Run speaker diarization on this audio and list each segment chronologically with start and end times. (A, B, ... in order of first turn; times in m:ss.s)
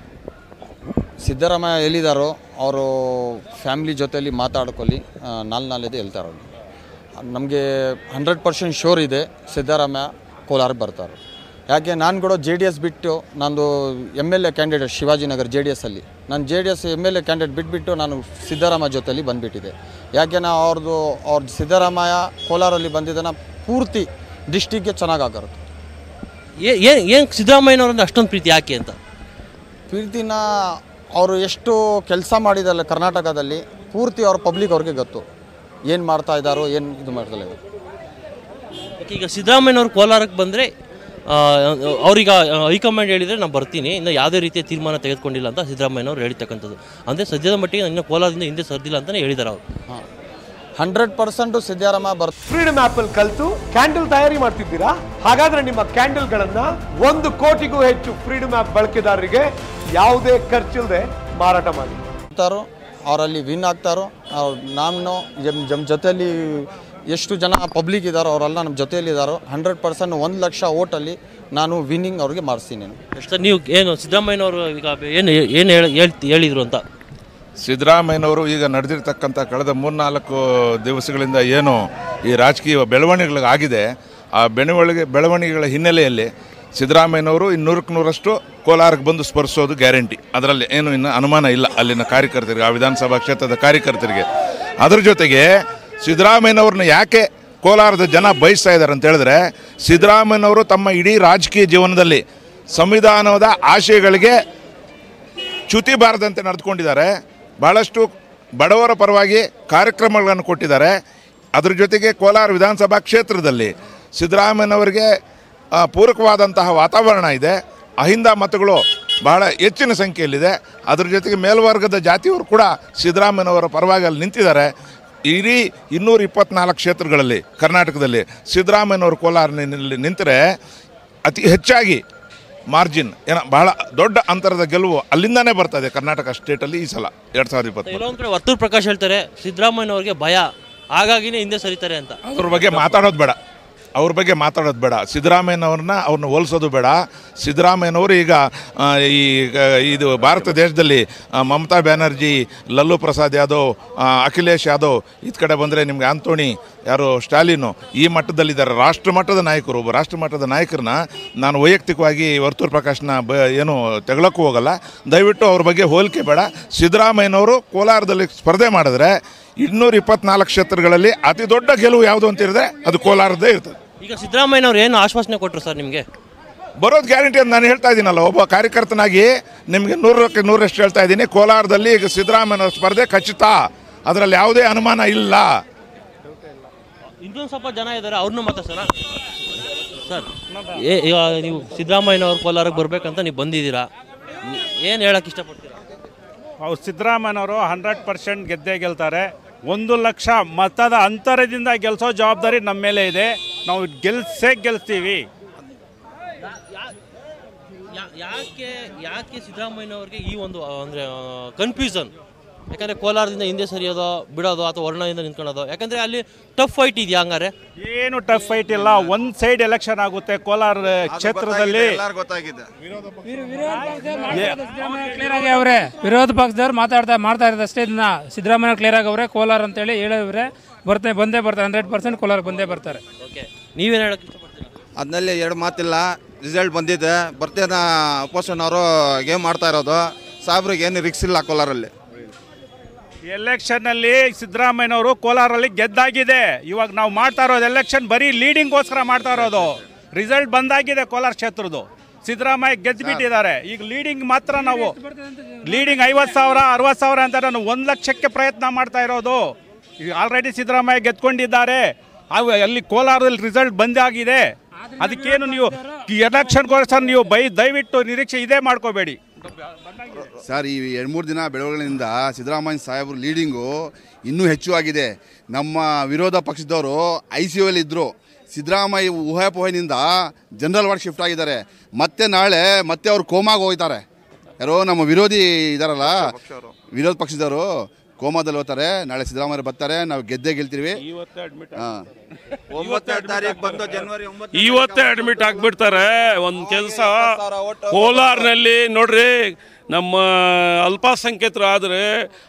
0:01.2-0:06.5 A
0:07.2-0:11.2 A
0:11.7-0:25.6 A
0:26.6-0:29.0 B
0:29.9-0:30.5 A
0:31.2-0:35.2 A
0:35.9-0:37.6 A
0:39.0-0:40.7 B
0:41.3-0:49.6 B
0:50.8-0:52.3 A
0:52.4-1:02.0 C
1:02.3-1:13.0 A
1:13.1-1:16.8 B
1:17.6-1:34.2 D
1:34.8-1:35.5 D
1:36.0-1:44.4 D
1:45.7-1:47.1 D
1:47.6-1:48.0 D
1:48.6-1:50.9 D
1:51.5-1:55.0 D
1:55.7-2:04.7 D
2:05.3-2:10.4 D
2:11.2-2:12.0 D
2:12.7-2:18.1 D
2:17.9-2:22.2 B
2:22.3-2:23.4 D
2:24.0-2:53.8 D
2:54.0-2:56.0 B
2:56.8-3:05.6 D
3:07.2-3:08.9 B
3:10.0-3:13.9 B
3:14.5-3:15.8 B
3:16.6-3:25.2 E
3:26.5-3:26.8 B
3:27.9-3:32.1 B
3:32.7-3:37.5 B
3:37.8-3:42.0 E
3:41.1-3:42.6 F
3:43.3-3:53.0 G
3:44.3-3:45.2 E
3:53.2-3:54.7 B
3:55.0-4:01.9 F
4:03.2-4:15.0 E
4:14.6-4:14.9 G
4:15.6-4:29.2 E
4:25.0-4:26.0 G
4:30.4-4:44.0 H
4:44.6-4:51.0 H
4:46.0-4:46.7 F
4:51.1-4:51.8 I
4:51.8-4:52.0 H
4:52.7-4:57.4 I
4:52.7-4:55.7 F
4:56.6-4:58.5 F
4:57.9-5:02.3 I